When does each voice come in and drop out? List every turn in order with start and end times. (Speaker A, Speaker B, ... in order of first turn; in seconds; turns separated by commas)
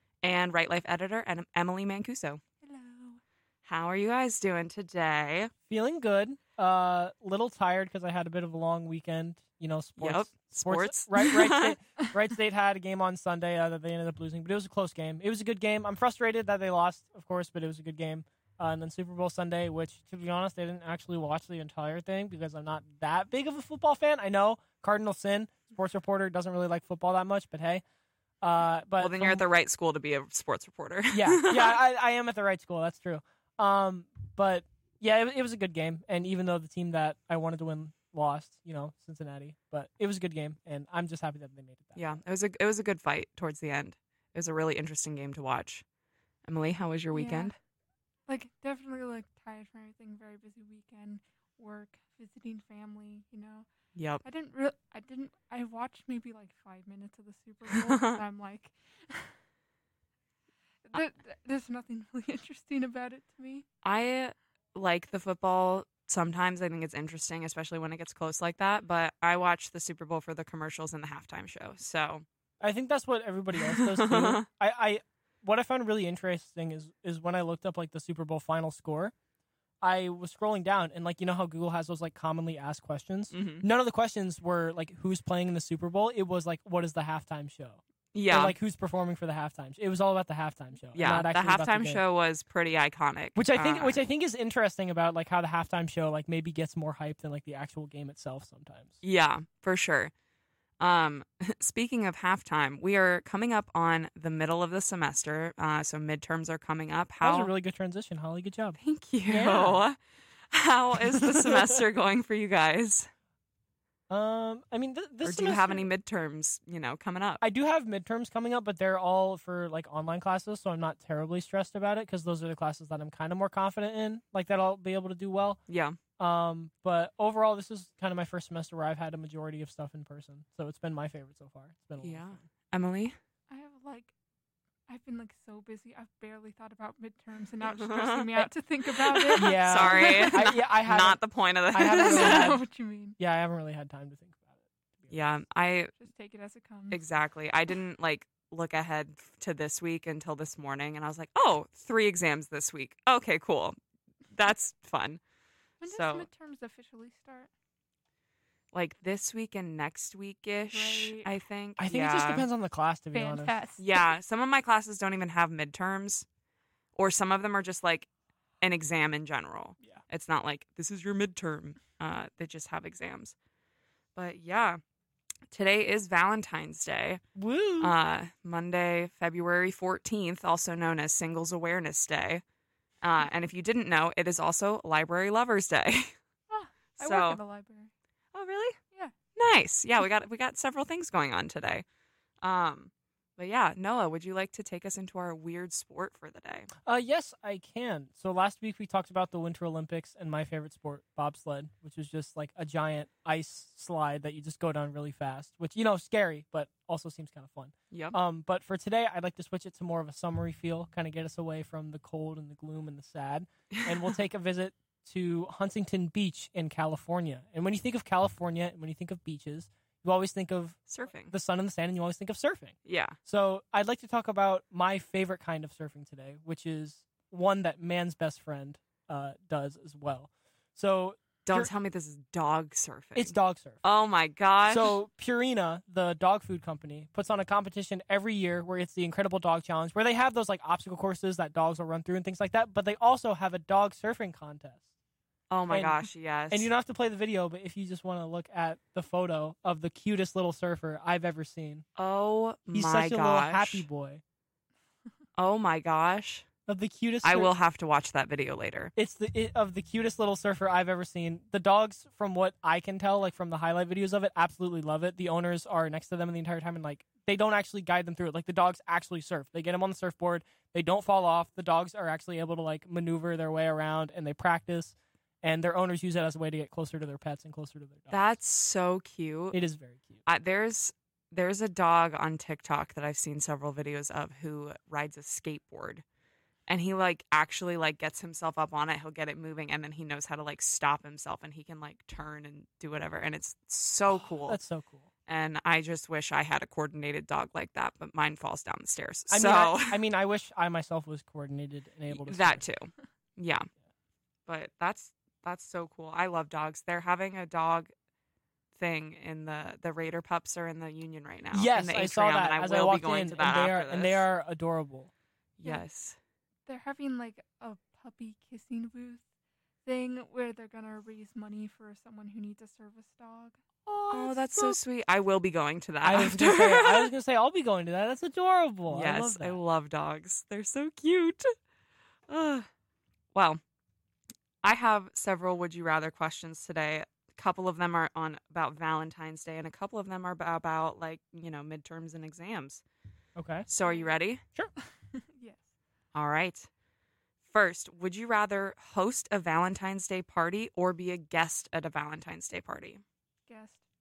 Speaker A: 0.2-2.4, Speaker B: 2.6-3.2, Speaker A: 3.6-5.5, Speaker C: 5.7-27.8, Speaker A: 10.0-11.8, Speaker C: 28.4-29.4, Speaker A: 29.0-31.8, Speaker C: 31.1-42.2, Speaker A: 42.0-45.8, Speaker A: 46.5-47.6, Speaker B: 47.1-47.5, Speaker B: 48.3-53.7, Speaker A: 54.0-54.2, Speaker B: 54.2-59.3, Speaker A: 57.7-58.2, Speaker B: 60.9-63.7, Speaker A: 63.8-72.2, Speaker C: 72.6-79.1, Speaker A: 73.6-74.4, Speaker C: 79.8-92.0, Speaker A: 83.3-83.7, Speaker A: 88.1-88.6, Speaker A: 91.0-94.0, Speaker C: 93.4-99.0, Speaker A: 99.0-100.1, Speaker A: 100.8-107.5, Speaker C: 107.2-109.8, Speaker A: 108.8-110.0, Speaker A: 110.5-113.1, Speaker C: 111.1-111.8, Speaker C: 114.1-115.9, Speaker A: 115.2-117.4, Speaker C: 117.4-125.6, Speaker A: 125.7-126.0, Speaker C: 126.2-132.4, Speaker A: 132.0-133.2, Speaker B: 133.5-134.1, Speaker B: 134.9-140.4, Speaker A: 137.6-142.6, Speaker C: 139.3-141.2, Speaker C: 141.7-142.6, Speaker B: 141.9-143.2, Speaker C: 143.2-145.1, Speaker A: 145.1-145.9, Speaker B: 146.0-147.0, Speaker A: 146.9-153.8, Speaker A: 154.3-155.2, Speaker B: 155.8-157.5, Speaker A: 155.8-156.3, Speaker A: 158.7-162.5, Speaker B: 160.7-161.3, Speaker C: 161.8-163.6, Speaker B: 163.1-163.8, Speaker A: 163.8-166.2, Speaker A: 166.9-168.1, Speaker A: 168.6-173.3, Speaker A: 174.2-174.8, Speaker A: 175.5-177.2, Speaker C: 177.3-177.9, Speaker A: 177.8-182.4, Speaker A: 183.0-186.2, Speaker B: 186.5-187.9, Speaker A: 187.0-187.4, Speaker A: 188.3-188.8, Speaker A: 189.3-191.8, Speaker A: 192.4-196.7, Speaker C: 196.8-231.7, Speaker A: 207.9-208.2, Speaker A: 213.7-214.1, Speaker A: 220.9-221.3, Speaker A: 222.8-223.2, Speaker A: 231.5-234.9, Speaker C: 233.2-233.8, Speaker C: 234.7-244.8, Speaker A: 245.5-246.7, Speaker C: 245.7-251.8, Speaker A: 251.9-253.9, Speaker C: 252.7-254.2, Speaker A: 255.4-256.4, Speaker C: 256.7-257.5, Speaker A: 257.2-258.9, Speaker C: 258.9-278.2, Speaker A: 278.1-279.6, Speaker C: 279.5-280.2, Speaker A: 280.2-286.0, Speaker A: 286.7-294.6, Speaker C: 294.1-295.1, Speaker A: 295.3-300.0, Speaker C: 299.3-302.6, Speaker A: 302.1-303.7, Speaker A: 304.5-307.9, Speaker A: 308.8-314.2, Speaker C: 311.5-315.1, Speaker A: 315.6-316.2, Speaker B: 316.7-319.2, Speaker B: 319.9-324.7, Speaker A: 324.1-327.1, Speaker C: 326.0-329.6, Speaker A: 328.9-331.5, Speaker A: 332.3-332.7, Speaker A: 333.3-333.6, Speaker A: 334.6-342.8, Speaker C: 343.4-343.7, Speaker A: 343.7-344.4, Speaker B: 343.8-344.1, Speaker B: 344.9-345.7, Speaker A: 346.1-346.7, Speaker A: 347.4-353.0, Speaker B: 353.5-353.8